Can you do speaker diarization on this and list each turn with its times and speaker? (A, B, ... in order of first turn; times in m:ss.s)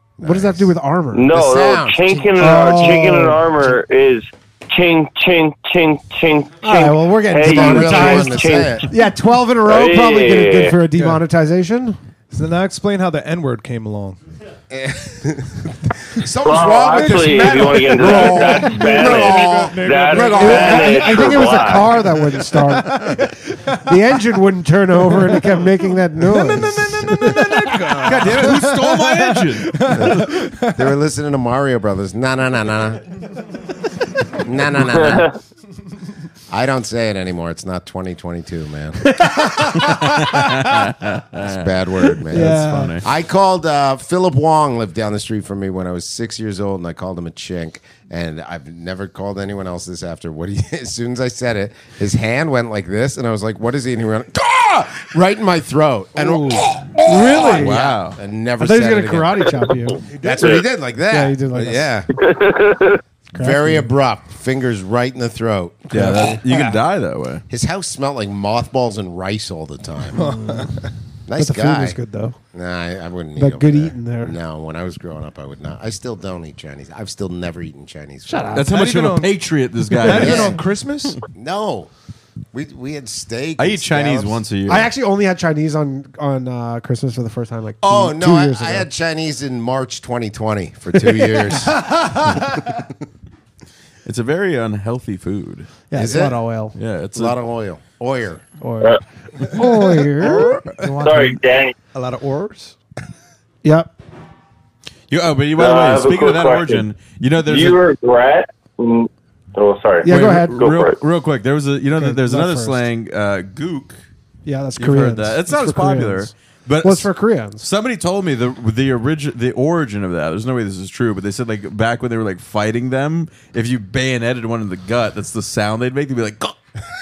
0:00.2-0:00.7 A
0:00.2-0:01.3 B
0:01.1-0:08.8 C
0:01.3-0:02.3 A
0:02.4-0:03.8 B
0:06.6-0:12.0 B
0:07.4-0:08.9 A
0:09.6-0:10.8 C
0:11.0-0:11.2 D
0:12.3-0:14.2 D
0:14.7-0:21.5 A
0:16.4-0:21.9 C
0:17.0-0:21.2 D
0:20.1-0:28.0 B
0:22.0-0:23.3 D
0:26.3-0:30.9 D
0:28.0-0:29.9 E
0:30.0-0:33.0 A
0:34.4-0:35.3 A
0:34.9-0:35.3 C
0:36.5-0:39.2 A
0:39.8-0:41.7 E
0:41.4-0:59.4 A
0:42.3-0:43.0 B
0:42.4-0:43.0 E
0:56.1-0:56.7 D
0:57.0-0:57.8 B
0:57.5-0:58.2 E
0:58.6-1:00.0 B
1:00.1-1:00.6 D
1:00.2-1:02.1 A
1:01.1-1:02.0 B
1:02.2-1:03.0 C
1:03.3-1:03.9 B
1:03.3-1:05.9 A
1:05.9-1:07.4 E
1:06.0-1:06.7 B
1:07.5-1:10.2 A
1:10.1-1:10.9 D
1:10.2-1:10.7 B
1:11.3-1:12.0 A
1:11.4-1:12.4 B
1:12.5-1:18.5 A
1:13.4-1:14.3 B
1:18.3-1:18.7 B
1:18.5-1:20.6 E
1:18.6-1:21.2 D
1:20.1-1:20.5 B
1:20.2-1:20.6 A
1:21.3-1:21.9 A
1:22.5-1:24.4 A
1:23.6-1:24.9 E
1:24.7-1:28.9 B
1:27.8-1:31.9 A
1:34.0-1:35.7 E
1:35.9-1:36.7 B
1:35.9-1:36.4 A
1:36.7-1:37.4 E
1:37.1-1:38.4 A
1:38.6-1:41.2 B
1:40.2-1:41.3 D
1:41.0-1:41.7 C
1:41.9-1:42.7 D
1:43.6-1:43.9 B
1:45.1-1:47.8 E
1:45.6-1:46.9 C
1:47.4-1:51.0 C
1:50.0-1:50.6 B
1:50.0-1:54.0 E
1:52.0-1:52.9 B
1:54.4-1:56.3 B
1:54.8-2:06.6 E
1:56.8-1:57.6 B